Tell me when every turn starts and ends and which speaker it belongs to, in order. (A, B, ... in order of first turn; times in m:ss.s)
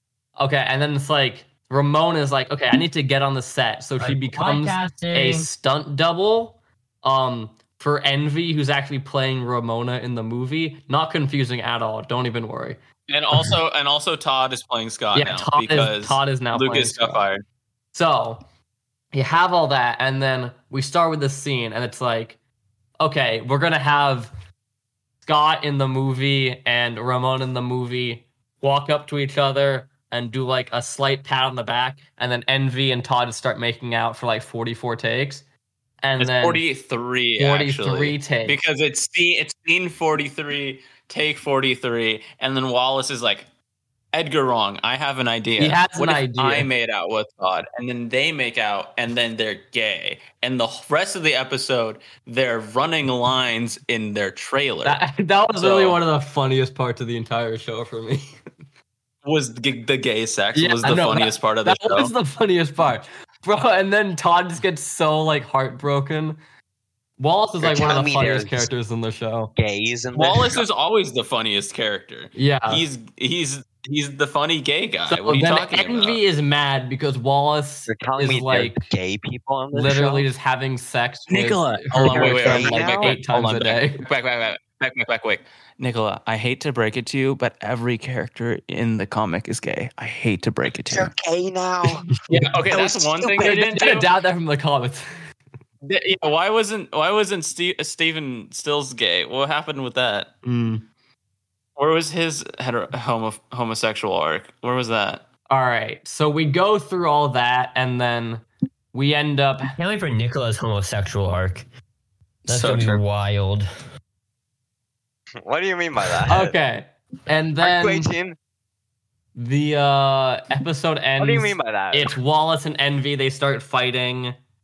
0:00.4-0:12.8 A
0:04.0-0:05.5 B
0:13.1-0:17.4 C
0:15.1-0:17.2 A
0:17.9-0:18.4 A
0:19.1-0:22.4 A
0:23.0-0:24.3 A
0:25.2-0:35.4 A
0:36.0-0:36.6 A
0:36.2-0:43.5 C
0:37.4-0:38.6 A
0:44.1-0:55.0 C
0:45.6-0:46.7 A
0:54.8-0:58.2 A
0:55.6-0:56.0 C
0:59.2-1:02.1 C
1:00.5-1:06.4 A
1:07.2-1:09.5 A
1:07.6-1:08.7 D
1:09.6-1:10.6 D
1:10.1-1:16.2 C
1:12.3-1:12.8 A
1:15.1-1:18.9 A
1:17.9-1:20.3 D
1:19.7-1:24.0 A
1:21.3-1:31.1 C
1:22.0-1:23.2 D
1:30.9-1:32.1 D
1:32.3-1:32.5 A
1:32.3-1:34.1 C
1:32.7-1:33.8 D
1:33.4-1:35.0 A
1:35.8-1:40.3 C
1:40.4-1:40.8 A
1:41.8-1:45.2 C
1:45.5-1:49.7 A
1:49.8-1:51.6 B
1:52.5-1:53.0 C
1:52.5-1:53.7 B
1:55.4-1:56.5 D
1:56.3-1:58.1 A
1:57.6-1:58.4 D
1:59.4-2:04.3 A
2:01.2-2:02.1 D